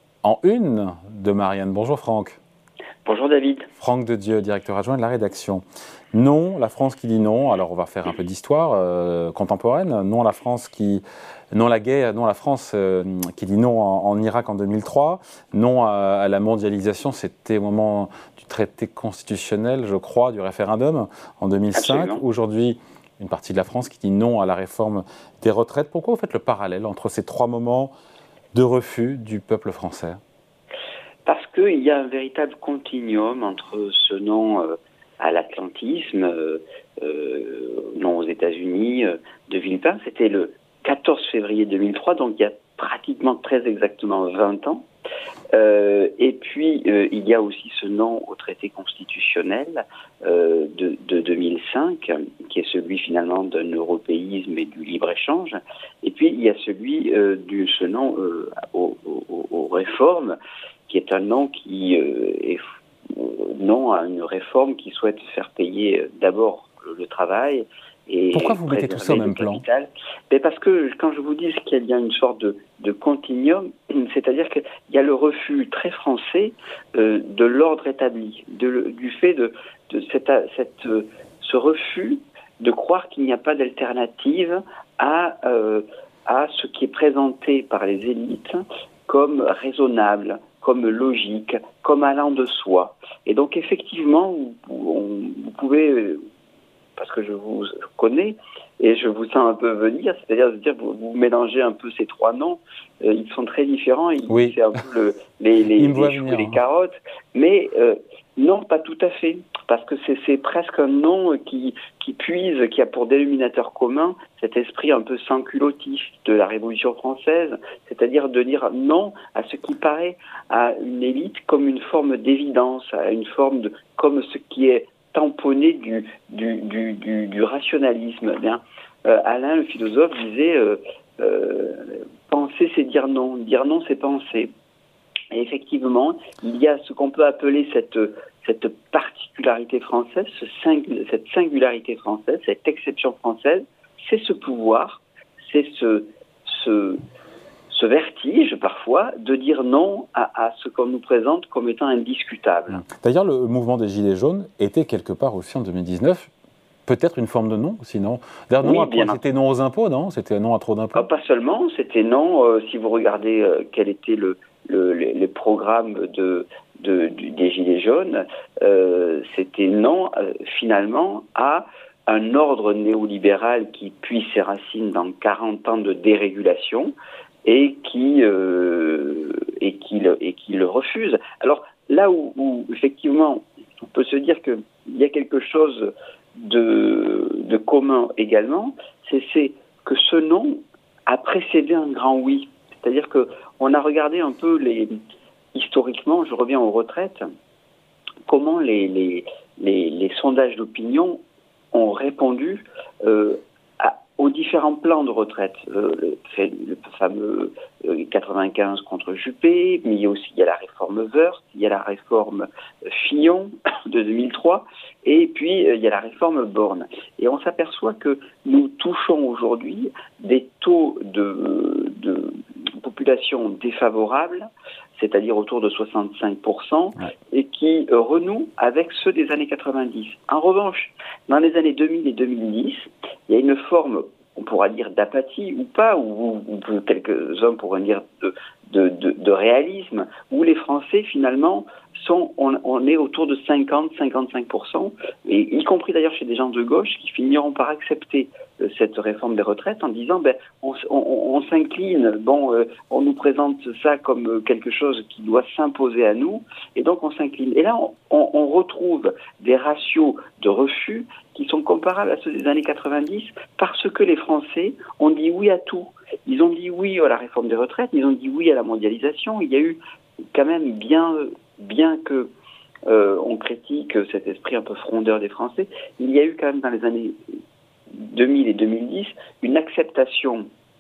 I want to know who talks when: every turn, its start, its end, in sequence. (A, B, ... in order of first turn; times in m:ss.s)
0:00.2-0:02.4 A
0:03.0-0:03.7 B
0:03.8-0:27.9 A
0:21.7-0:22.2 B
0:28.5-0:30.2 A
0:31.2-0:44.9 B
0:45.5-1:00.4 B
1:00.9-1:36.2 B
1:08.3-1:09.6 A
1:37.0-2:14.5 B
1:44.3-1:44.6 A
1:45.7-1:46.6 A
2:15.3-2:27.0 B
2:27.7-2:32.8 B
2:32.7-2:36.3 A
2:36.9-2:41.1 A
2:38.6-2:39.2 B
2:41.0-2:56.9 B
2:57.4-3:15.0 B
3:15.5-3:17.2 B
3:18.3-3:21.2 B
3:21.7-4:29.8 B
4:30.3-4:32.3 B
4:32.9-4:37.2 B
4:37.9-4:40.5 B